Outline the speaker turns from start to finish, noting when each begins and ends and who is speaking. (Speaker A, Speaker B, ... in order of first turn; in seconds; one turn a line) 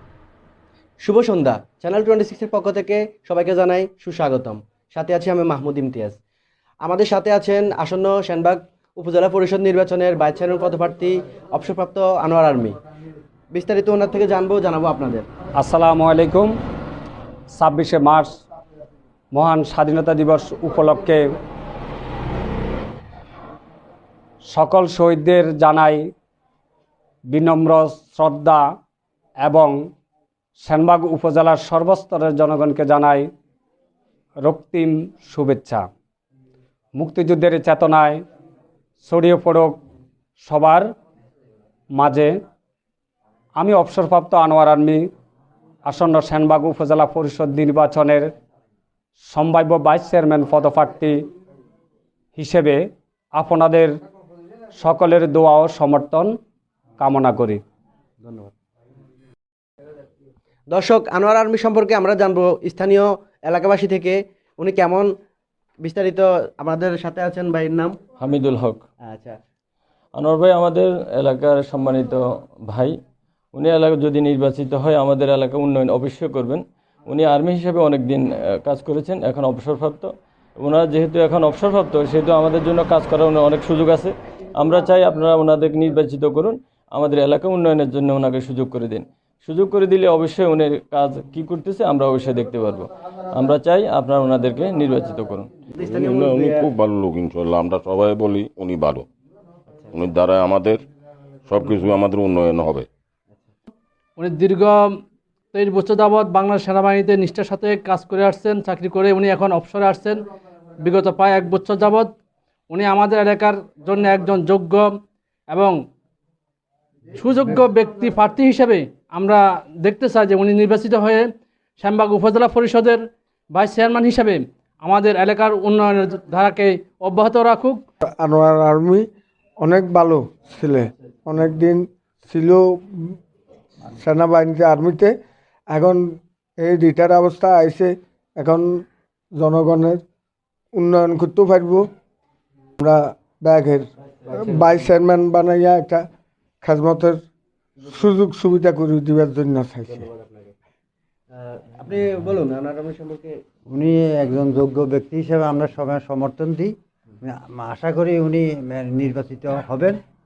Speaker A: 1.0-6.2
Speaker A: 6.8-12.8
Speaker A: 13.5-15.3
Speaker B: 15.6-16.5
Speaker B: 17.6-18.4
Speaker B: 19.3-21.3
Speaker B: 24.5-26.1
Speaker B: 27.3-28.7
Speaker B: 29.4-29.8
Speaker B: 30.6-33.3
Speaker B: 34.4-35.9
Speaker B: 37.0-38.2
Speaker B: 39.0-39.8
Speaker B: 40.4-40.9
Speaker B: 42.0-42.3
Speaker B: 43.6-45.0
Speaker B: 45.9-48.3
Speaker B: 49.3-51.2
Speaker B: 52.3-52.8
Speaker B: 53.4-53.9
Speaker B: 54.8-56.3
Speaker B: 57.0-57.6
Speaker A: 58.2-58.5
Speaker A: 60.7-65.1
Speaker A: 65.8-68.0
Speaker C: 68.2-68.8
Speaker A: 69.1-69.4
Speaker C: 70.2-72.9
Speaker C: 73.5-95.5
Speaker A: 95.8-96.7
Speaker D: 95.9-99.0
Speaker D: 99.9-100.8
Speaker D: 101.5-102.9
Speaker E: 104.2-104.9
Speaker E: 105.5-110.2
Speaker E: 110.8-112.1
Speaker E: 112.7-114.9
Speaker E: 115.5-115.8
Speaker E: 117.1-121.3
Speaker E: 121.8-127.8
Speaker F: 128.1-129.0
Speaker F: 129.6-133.2
Speaker F: 133.9-135.1
Speaker F: 135.7-138.8
Speaker F: 139.3-140.0
Speaker F: 140.7-141.8
Speaker F: 142.8-146.0
Speaker F: 146.6-147.2
Speaker F: 147.8-150.1
Speaker A: 149.9-150.5
Speaker A: 151.3-153.4
Speaker G: 153.7-160.0